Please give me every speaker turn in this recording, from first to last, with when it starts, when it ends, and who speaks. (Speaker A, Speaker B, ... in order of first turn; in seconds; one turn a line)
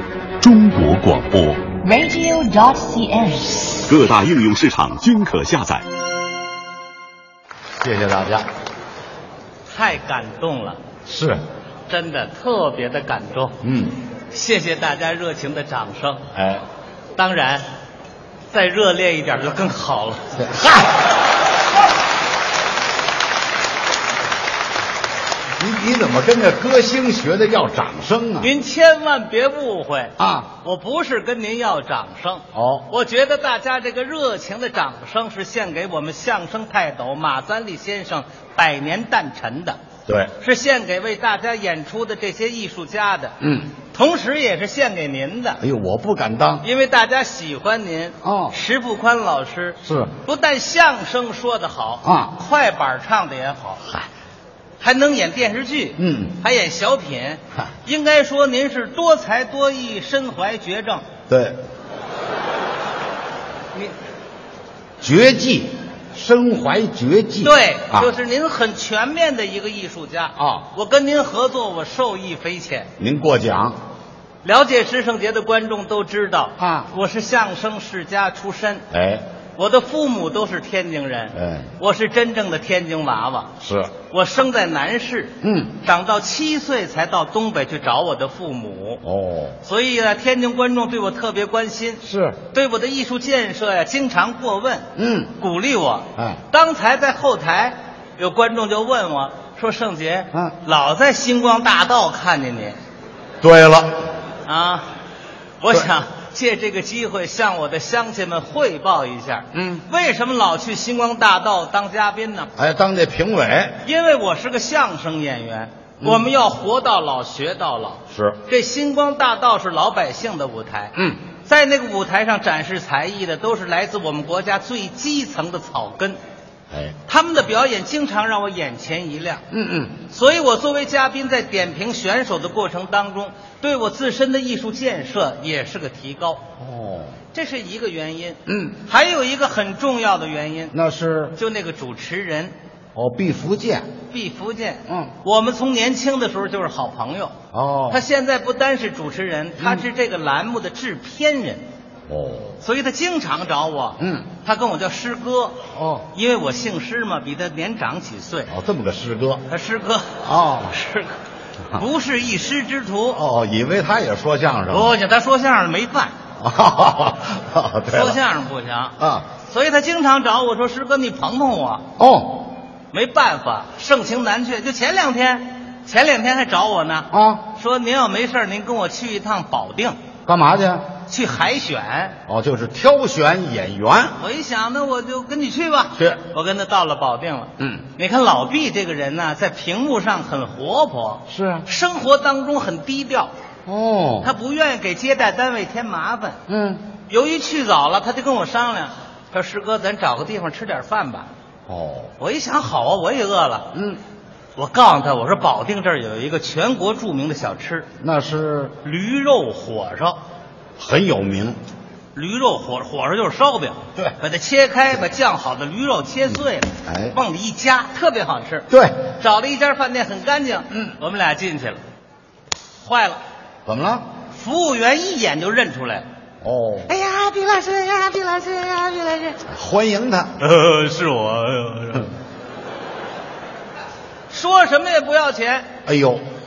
Speaker A: 0.4-1.8
Speaker B: 1.8-3.8
Speaker A: 3.9-5.8
Speaker C: 7.8-8.5
Speaker D: 9.7-10.8
Speaker C: 11.1-11.4
Speaker D: 11.9-13.6
Speaker C: 13.6-14.0
Speaker D: 14.3-16.2
Speaker C: 16.3-16.6
Speaker D: 17.1-17.6
Speaker D: 18.5-20.6
Speaker C: 20.4-20.9
Speaker C: 25.6-28.5
Speaker D: 28.4-39.8
Speaker C: 30.2-30.5
Speaker C: 32.5-32.9
Speaker C: 40.1-40.3
Speaker D: 40.4-45.6
Speaker C: 43.4-43.7
Speaker C: 45.6-46.6
Speaker D: 46.6-54.0
Speaker C: 48.2-48.5
Speaker C: 49.8-50.1
Speaker C: 52.0-52.3
Speaker D: 54.8-61.0
Speaker C: 56.0-56.4
Speaker C: 61.3-61.6
Speaker C: 65.0-68.1
Speaker D: 67.4-72.9
Speaker C: 70.4-70.7
Speaker C: 73.0-73.8
Speaker D: 74.4-78.8
Speaker C: 76.6-76.9
Speaker C: 78.9-79.2
Speaker D: 79.6-89.0
Speaker C: 81.3-81.7
Speaker C: 83.6-83.9
Speaker C: 85.4-85.8
Speaker C: 89.0-89.6
Speaker D: 89.6-94.9
Speaker C: 92.0-92.4
Speaker C: 95.0-95.3
Speaker D: 95.4-102.8
Speaker C: 96.2-96.4
Speaker C: 103.4-104.1
Speaker D: 104.4-104.8
Speaker D: 105.6-112.5
Speaker C: 109.5-109.8
Speaker C: 112.6-113.8
Speaker D: 113.8-126.2
Speaker C: 116.0-116.3
Speaker C: 118.1-118.4
Speaker C: 120.9-121.2
Speaker C: 126.7-127.0
Speaker D: 127.0-129.4
Speaker C: 129.5-130.0
Speaker D: 130.1-136.4
Speaker C: 136.6-137.2
Speaker D: 137.3-140.7
Speaker C: 138.5-138.8
Speaker C: 140.7-141.4
Speaker D: 141.3-142.5
Speaker C: 142.9-143.9
Speaker D: 144.1-147.3
Speaker C: 144.9-145.1
Speaker C: 147.5-148.0
Speaker D: 147.9-151.7
Speaker C: 149.6-149.8
Speaker C: 152.1-152.6
Speaker D: 152.6-155.6
Speaker C: 154.0-154.3
Speaker C: 155.7-156.1
Speaker D: 156.1-158.5
Speaker C: 158.5-159.4
Speaker D: 159.5-161.2
Speaker C: 160.2-160.7
Speaker D: 161.7-163.2
Speaker C: 163.1-164.9
Speaker D: 164.7-166.1
Speaker C: 166.4-168.2
Speaker D: 167.9-171.8
Speaker C: 169.0-169.3
Speaker C: 172.0-172.5
Speaker D: 172.9-180.0
Speaker C: 177.1-177.4
Speaker C: 180.2-180.9
Speaker D: 181.1-182.2
Speaker C: 182.3-184.2
Speaker D: 184.2-193.3
Speaker C: 187.6-187.8
Speaker C: 191.3-191.7
Speaker C: 193.7-194.3
Speaker D: 194.2-196.4
Speaker C: 196.5-196.8
Speaker D: 197.1-201.3
Speaker C: 201.7-202.1
Speaker D: 202.2-203.7
Speaker C: 203.7-204.0
Speaker D: 204.6-207.9
Speaker C: 208.0-208.7
Speaker D: 208.8-210.2
Speaker C: 210.8-211.6
Speaker D: 212.1-221.8
Speaker C: 216.8-217.2
Speaker C: 218.7-219.1
Speaker D: 222.8-223.2
Speaker C: 223.7-224.1
Speaker D: 224.3-226.0
Speaker C: 226.4-226.9
Speaker D: 226.9-229.4
Speaker C: 229.5-230.3
Speaker D: 230.4-232.1
Speaker D: 234.3-235.7
Speaker C: 235.8-236.2